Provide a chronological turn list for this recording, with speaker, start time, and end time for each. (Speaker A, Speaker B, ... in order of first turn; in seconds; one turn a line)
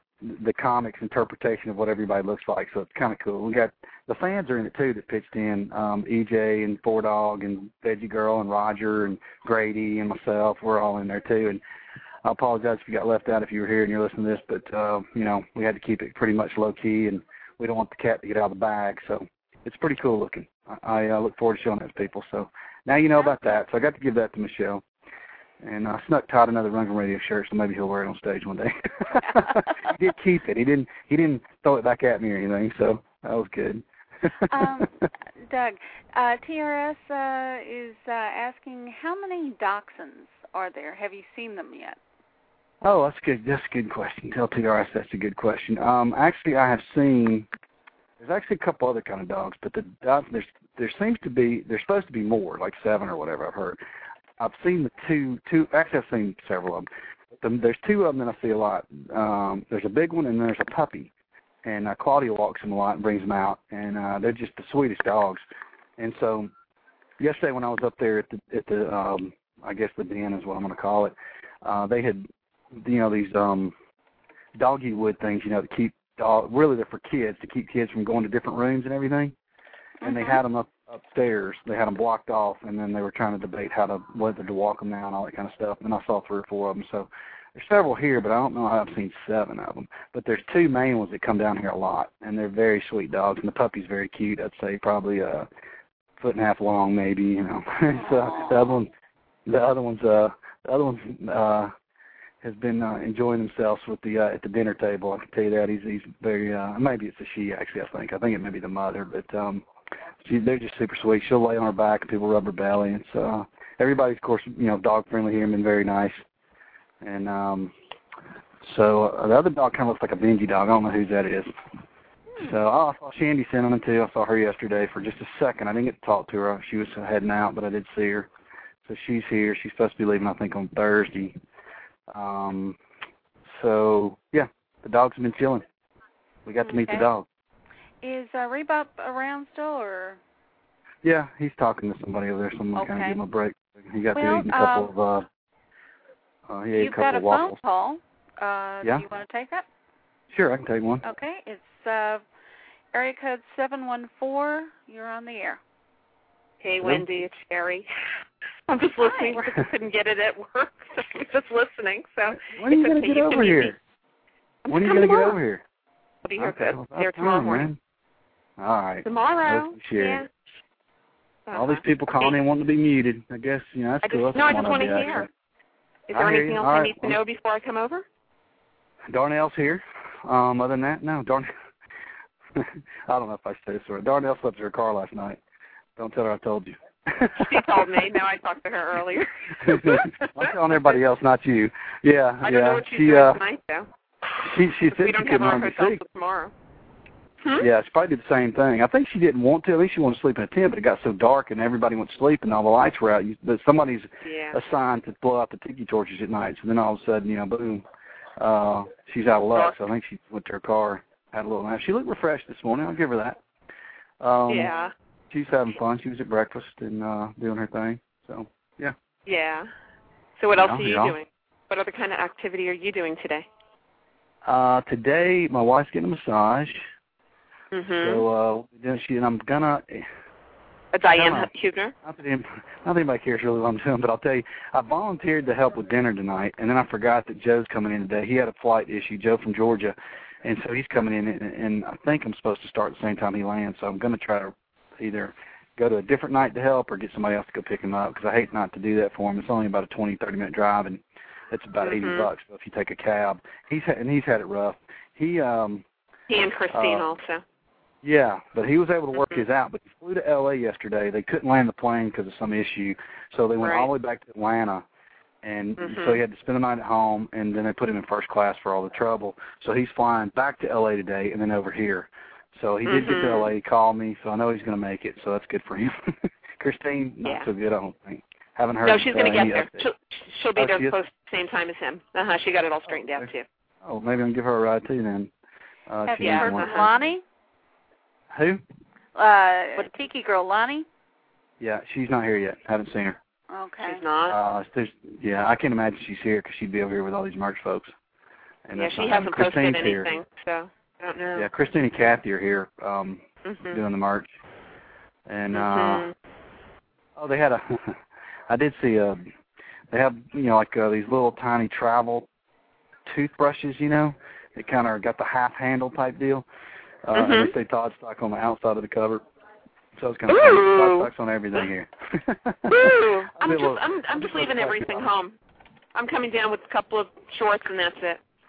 Speaker A: 0.2-11.6
Speaker A: 12.2-24.8
Speaker A: 25.6-35.0
Speaker B: 34.5-34.9
Speaker B: 35.5-42.0
Speaker A: 42.8-47.5
Speaker A: 48.2-53.8
Speaker A: 54.4-56.9
Speaker A: 57.4-61.1
Speaker A: 61.6-65.4
Speaker A: 66.0-66.5
Speaker A: 67.2-73.7
Speaker A: 74.5-79.3
Speaker B: 80.0-80.4
Speaker A: 80.0-95.5
Speaker A: 96.2-98.9
Speaker B: 98.0-98.7
Speaker A: 99.5-101.7
Speaker A: 102.4-109.6
Speaker A: 110.2-116.2
Speaker A: 117.0-117.7
Speaker A: 118.6-121.5
Speaker A: 122.4-128.3
Speaker A: 128.8-131.4
Speaker A: 132.1-132.8
Speaker A: 133.5-135.7
Speaker A: 136.4-137.2
Speaker B: 136.6-137.1
Speaker B: 138.0-140.2
Speaker A: 141.0-145.2
Speaker B: 142.8-143.2
Speaker B: 144.1-144.9
Speaker A: 146.5-147.6
Speaker B: 146.8-149.7
Speaker A: 150.3-151.0
Speaker B: 151.0-152.2
Speaker B: 152.9-155.6
Speaker C: 156.6-157.9
Speaker C: 158.7-163.8
Speaker B: 159.0-159.4
Speaker A: 162.4-163.8
Speaker C: 164.6-165.3
Speaker A: 164.7-165.6
Speaker C: 166.2-167.7
Speaker A: 166.4-167.8
Speaker A: 168.6-170.2
Speaker C: 169.0-170.3
Speaker C: 171.5-172.3
Speaker A: 171.5-175.3
Speaker C: 174.0-175.3
Speaker C: 176.1-178.0
Speaker A: 176.1-177.2
Speaker A: 179.1-181.5
Speaker A: 182.5-185.4
Speaker A: 186.0-187.9
Speaker C: 187.4-190.8
Speaker A: 189.6-193.4
Speaker C: 192.4-193.9
Speaker A: 194.4-196.0
Speaker C: 194.9-196.5
Speaker A: 197.5-207.8
Speaker C: 204.2-204.6
Speaker A: 208.4-213.4
Speaker A: 214.2-214.8
Speaker C: 214.5-214.9
Speaker A: 215.3-218.9
Speaker C: 219.2-219.7
Speaker C: 220.4-223.4
Speaker A: 220.5-221.2
Speaker A: 224.4-226.8
Speaker C: 227.7-228.2
Speaker A: 228.0-230.1
Speaker C: 230.9-231.9
Speaker A: 231.1-231.5
Speaker A: 232.0-255.8
Speaker C: 251.8-252.3
Speaker C: 256.3-257.4
Speaker A: 256.7-257.1
Speaker A: 258.0-264.9
Speaker C: 263.6-263.9
Speaker A: 265.4-279.8
Speaker C: 265.8-266.2
Speaker C: 272.9-273.5
Speaker C: 278.8-283.4
Speaker A: 280.6-280.9
Speaker A: 283.8-285.3
Speaker A: 285.9-287.0
Speaker B: 286.1-287.2
Speaker C: 286.2-286.9
Speaker A: 288.3-288.6
Speaker B: 289.1-290.9
Speaker A: 291.6-293.2
Speaker B: 293.5-294.0
Speaker C: 293.8-294.4
Speaker A: 294.2-297.9
Speaker A: 298.7-300.1
Speaker C: 298.7-301.5
Speaker A: 301.4-304.3
Speaker C: 303.4-303.8
Speaker A: 305.3-306.1
Speaker C: 305.5-306.1
Speaker A: 307.1-308.0
Speaker A: 308.5-309.3
Speaker A: 309.9-312.3
Speaker A: 313.1-316.4
Speaker A: 317.1-319.2
Speaker C: 317.1-317.5
Speaker A: 320.0-325.1
Speaker C: 320.3-321.1
Speaker C: 322.7-325.3
Speaker C: 325.9-328.2